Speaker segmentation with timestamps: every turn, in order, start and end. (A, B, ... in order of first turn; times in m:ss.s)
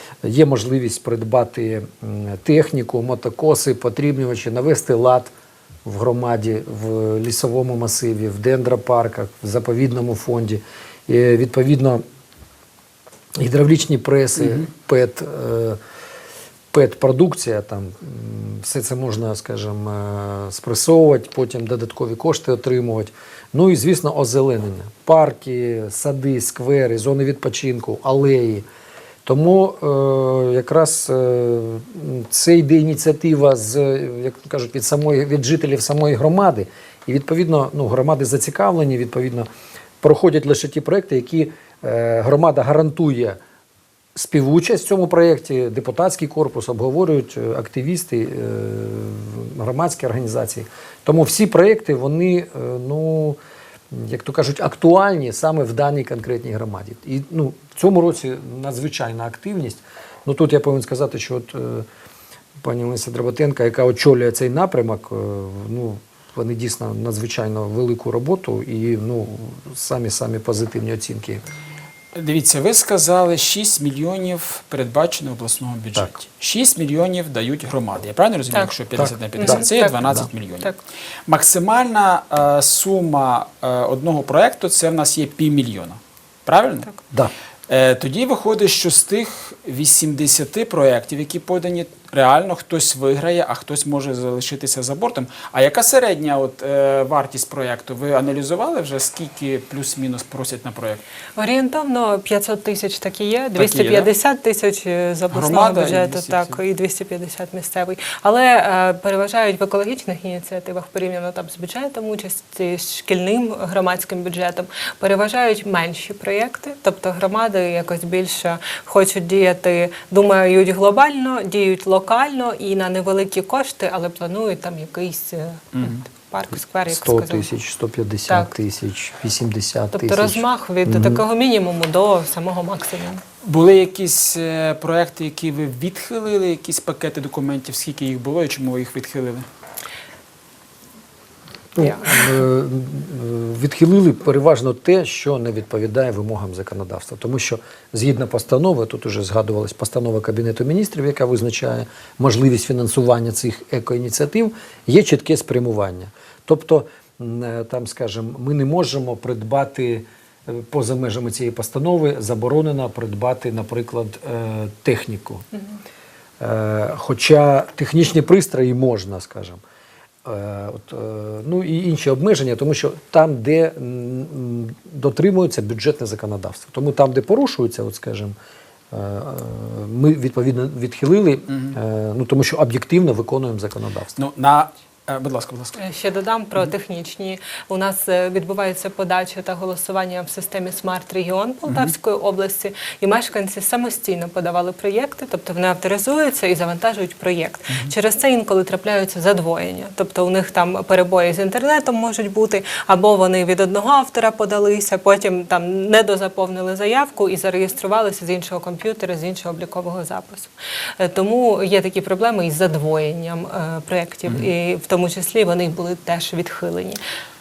0:00.2-0:05.3 A
0:05.8-0:12.0 A
0:13.4-0:15.8 A
0:14.4-0:14.7 B
0:16.7-0:28.7 A
0:29.2-0:39.5 A
0:40.0-0:43.4 A
0:44.2-0:53.4 A
0:53.9-1:01.9 A
1:02.6-1:11.4 A
1:12.1-1:20.7 B
1:19.0-1:20.3 A
1:19.4-1:20.8 C
1:21.3-1:26.9 B
1:27.7-1:41.0 B
1:41.4-2:07.5 C
1:43.6-1:44.1 B
1:45.3-1:46.6 B
2:06.9-2:11.2 A
2:09.9-2:13.2 C
2:13.4-2:19.5 B
2:21.8-2:45.5 A
2:21.8-2:22.2 C
2:46.4-2:49.6 A
2:50.2-2:58.4 A
2:58.9-3:04.2 A
3:04.2-3:05.8 B
3:05.8-3:37.0 C